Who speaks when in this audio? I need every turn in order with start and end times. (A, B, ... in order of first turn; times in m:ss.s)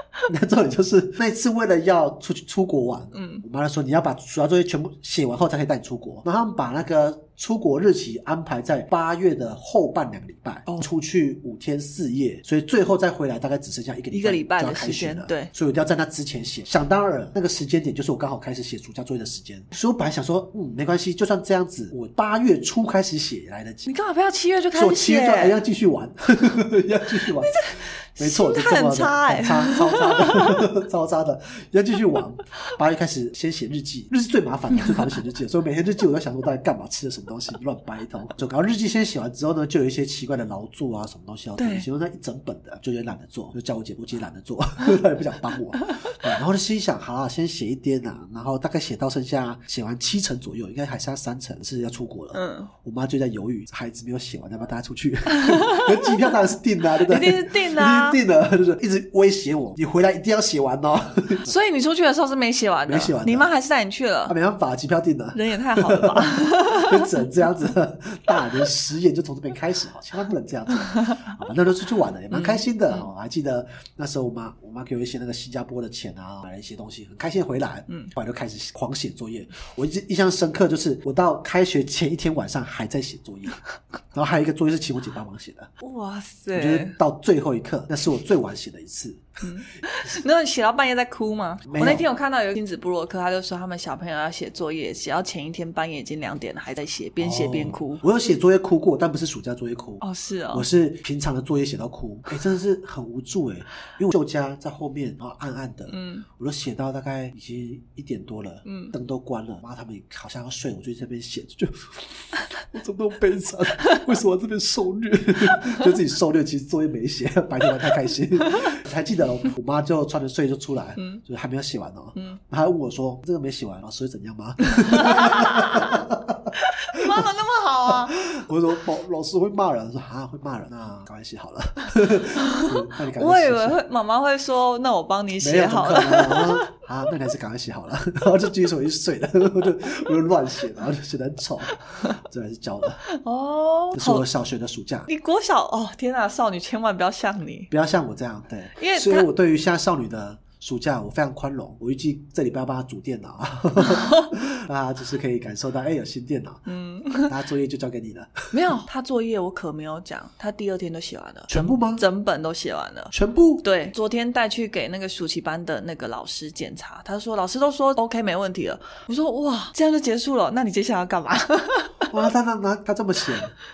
0:00.3-0:23.9 A
0:03.1-0:03.4 B
0:14.1-0:15.5 B
0:23.8-0:25.6 B
0:24.7-1:01.5 A
0:27.4-0:30.6 B
0:41.6-0:41.9 B
0:52.3-0:52.7 B
0:55.5-0:55.9 B
0:57.0-0:58.2 B
1:01.4-1:04.4 B
1:02.9-1:03.5 A
1:04.3-1:23.6 A
1:05.3-1:07.1 B
1:12.3-1:13.1 B
1:24.1-1:25.7 A
1:25.8-1:27.0 B
1:26.5-1:29.4 A
1:29.4-1:38.0 B
1:31.7-1:32.1 A
1:37.2-2:07.3 A
1:40.0-1:40.7 B
1:45.9-1:46.2 B
1:48.6-1:48.9 B
2:04.8-2:06.0 B
2:06.6-2:08.2 B
2:07.9-2:13.8 A
2:12.4-2:16.7 B
2:15.4-2:23.0 A
2:23.1-2:24.2 B
2:24.0-2:25.1 A
2:25.1-2:27.7 B
2:27.7-2:36.6 A
2:28.8-2:29.3 B
2:33.8-2:34.3 B
2:36.7-2:37.3 B
2:37.2-2:38.5 A
2:38.5-2:52.1 B
2:41.5-2:42.0 A
2:43.1-2:43.6 A
2:52.1-2:53.6 A